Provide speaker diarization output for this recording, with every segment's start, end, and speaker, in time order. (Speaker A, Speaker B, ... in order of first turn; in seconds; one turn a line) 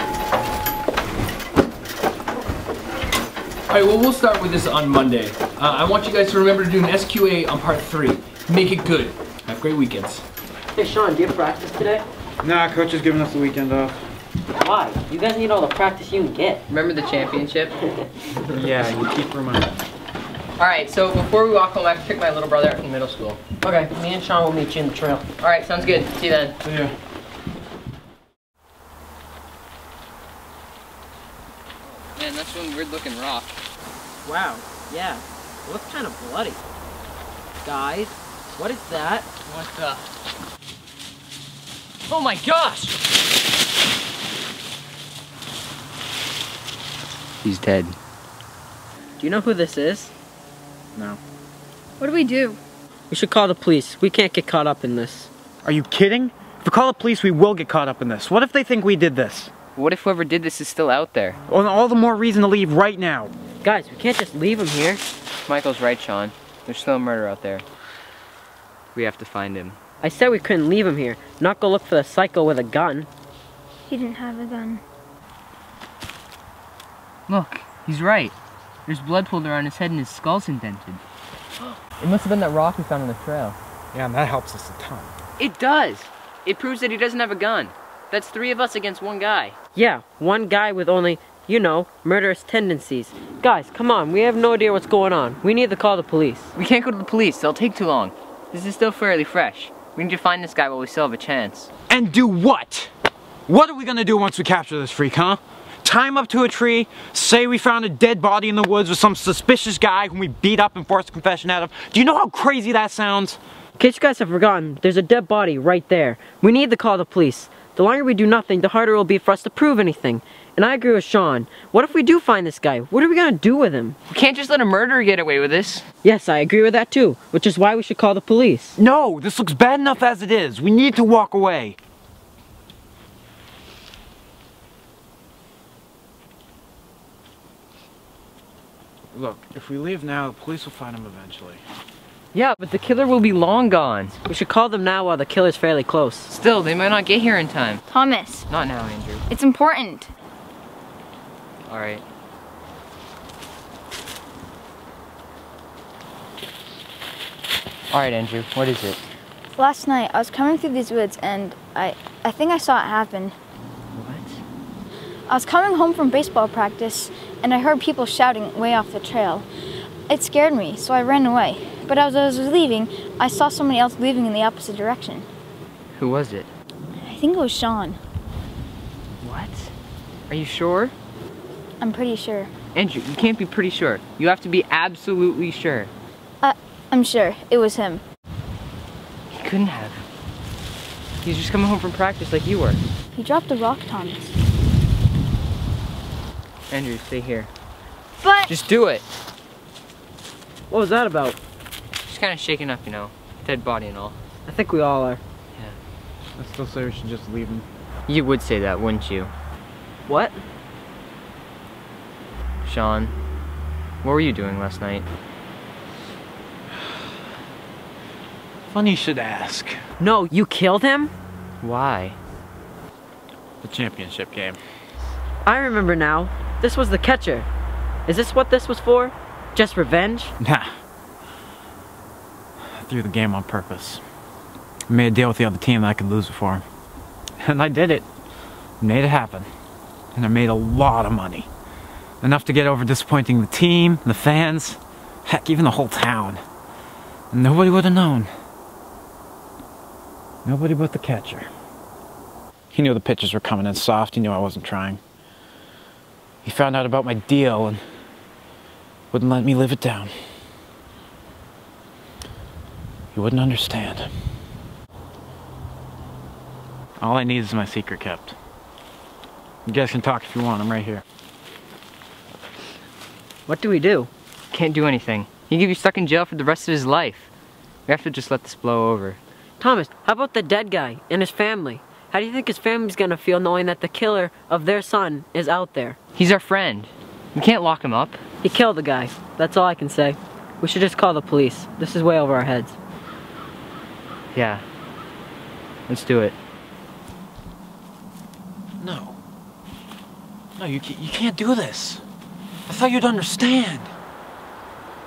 Speaker A: 3.7-10.2
Speaker B: 10.7-12.1
Speaker C: 12.4-14.0
Speaker B: 14.6-16.6
Speaker D: 16.7-17.8
Speaker C: 18.5-19.7
Speaker D: 20.6-23.4
Speaker B: 23.6-25.3
Speaker D: 25.4-26.6
Speaker C: 26.6-26.9
Speaker D: 31.8-33.6
Speaker B: 34.2-36.6
Speaker B: 37.6-39.4
Speaker D: 39.5-40.0
Speaker D: 42.1-43.0
Speaker D: 47.4-48.0
Speaker B: 49.2-50.1
Speaker E: 52.0-52.6
Speaker B: 53.1-55.3
Speaker C: 55.6-59.5
Speaker D: 59.7-61.4
Speaker C: 61.5-63.3
Speaker B: 63.6-65.0
Speaker D: 65.5-67.6
Speaker D: 68.9-69.8
Speaker B: 70.0-73.1
Speaker E: 73.9-74.8
Speaker D: 77.3-78.3
Speaker D: 78.9-81.0
Speaker D: 81.6-83.6
Speaker C: 83.9-85.1
Speaker D: 85.4-89.5
Speaker B: 89.7-96.5
Speaker D: 96.5-101.7
Speaker C: 101.9-102.9
Speaker C: 103.5-113.4
Speaker B: 113.8-124.0
Speaker D: 124.1-125.8
Speaker B: 126.0-128.8
Speaker C: 128.8-131.8
Speaker C: 139.1-141.6
Speaker D: 142.3-144.2
Speaker B: 144.3-146.3
Speaker D: 146.3-147.8
Speaker E: 147.9-148.5
Speaker D: 148.5-149.2
Speaker E: 149.3-150.1
Speaker D: 151.7-152.0
Speaker D: 157.9-159.1
Speaker E: 159.5-163.3
Speaker D: 163.9-164.4
Speaker E: 165.3-169.4
Speaker E: 170.1-175.2
Speaker D: 175.9-176.5
Speaker E: 177.0-178.0
Speaker D: 179.2-179.7
Speaker D: 180.3-180.9
Speaker E: 181.8-182.5
Speaker D: 182.7-185.9
Speaker E: 186.4-188.0
Speaker D: 189.3-190.0
Speaker D: 191.2-192.8
Speaker E: 193.1-194.3
Speaker D: 196.7-197.5
Speaker E: 198.2-198.5
Speaker D: 198.5-199.0
Speaker B: 200.7-201.4
Speaker D: 202.0-204.2
Speaker B: 204.5-205.2
Speaker C: 206.4-207.7
Speaker D: 208.1-209.3
Speaker B: 210.1-210.4
Speaker D: 212.6-213.1
Speaker D: 214.0-215.1
Speaker C: 218.7-219.8
Speaker B: 220.0-221.1
Speaker D: 221.6-222.2
Speaker C: 223.6-224.6
Speaker B: 225.4-227.5
Speaker B: 228.1-230.3
Speaker C: 230.4-230.7
Speaker C: 232.8-234.0
Speaker C: 234.9-236.6
Speaker C: 237.4-238.0
Speaker C: 238.8-239.5
Speaker C: 240.1-241.5
Speaker C: 242.2-246.4
Speaker C: 247.3-248.3
Speaker C: 250.4-251.5
Speaker C: 252.7-255.0
Speaker C: 256.4-257.8
Speaker C: 259.1-260.1
Speaker C: 263.1-264.1
Speaker C: 267.0-268.3
Speaker C: 269.7-271.0
Speaker B: 273.5-274.1
Speaker D: 274.5-277.3
Speaker D: 277.9-279.2
Speaker B: 279.6-285.9
Speaker D: 286.1-288.2
Speaker B: 288.4-292.8
Speaker D: 294.3-294.6
Speaker D: 295.9-296.3
Speaker C: 298.8-299.2
Speaker C: 300.6-302.0
Speaker C: 302.7-303.9